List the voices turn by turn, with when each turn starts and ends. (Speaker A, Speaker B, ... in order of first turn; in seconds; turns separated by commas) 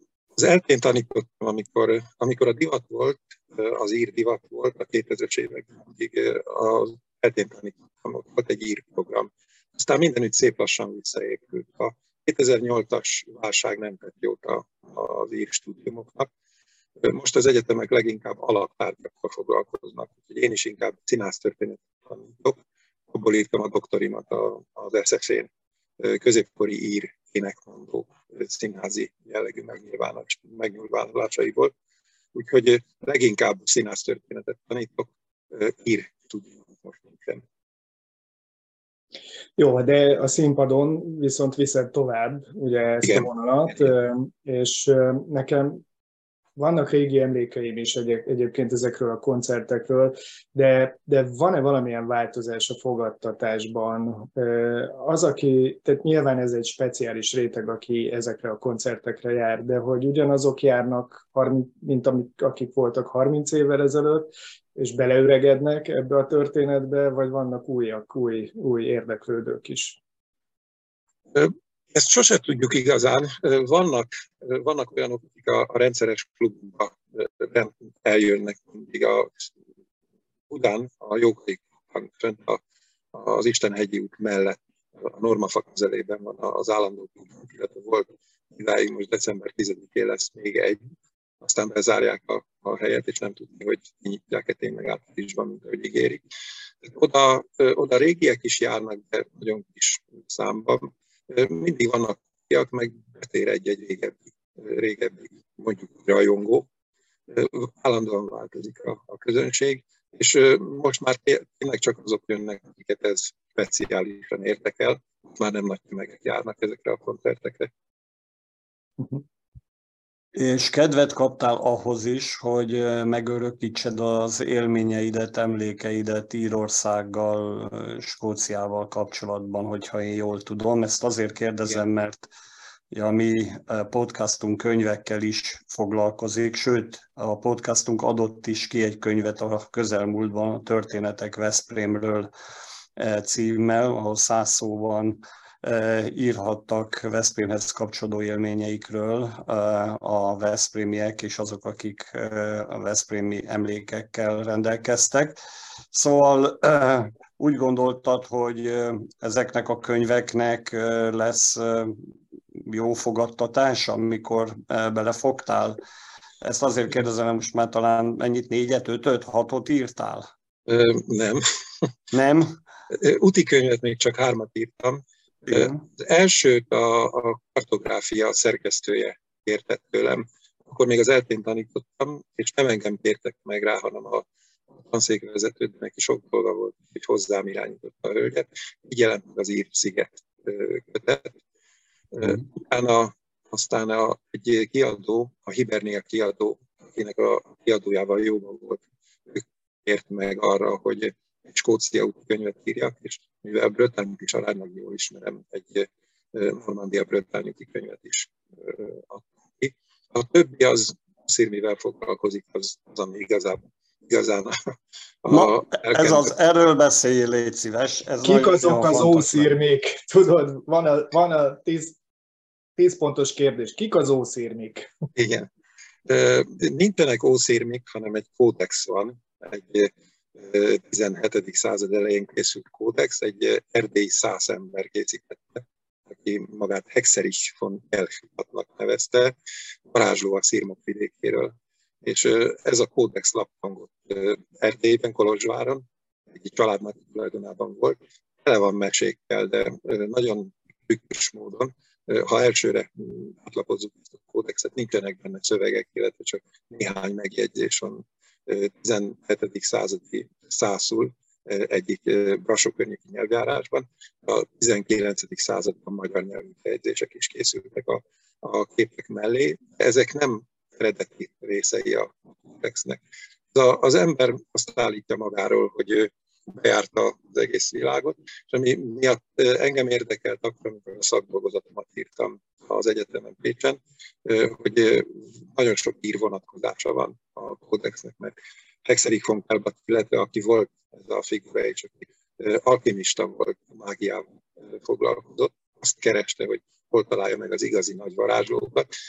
Speaker A: 0.4-16.3, Speaker A: 17.0-31.7, Speaker A: 32.3-37.4, Speaker B: 39.6-45.8, Speaker A: 43.0-43.3, Speaker B: 46.6-70.0, Speaker A: 71.3-79.5, Speaker A: 80.5-82.6, Speaker A: 83.1-90.8, Speaker A: 91.4-96.2, Speaker A: 96.8-106.7, Speaker A: 107.3-117.7, Speaker C: 120.3-132.3, Speaker C: 132.9-142.3, Speaker C: 143.0-155.4, Speaker C: 155.9-165.8, Speaker C: 166.4-170.3, Speaker A: 170.7-171.5, Speaker C: 172.1-172.6, Speaker A: 172.9-184.3, Speaker C: 175.5-175.8, Speaker A: 184.8-191.4, Speaker A: 192.1-214.6, Speaker A: 215.2-216.3, Speaker C: 215.3-219.5, Speaker B: 218.2-222.0, Speaker B: 222.8-224.9, Speaker A: 225.2-225.5, Speaker A: 226.1-239.3, Speaker A: 239.9-273.0, Speaker A: 273.5-298.9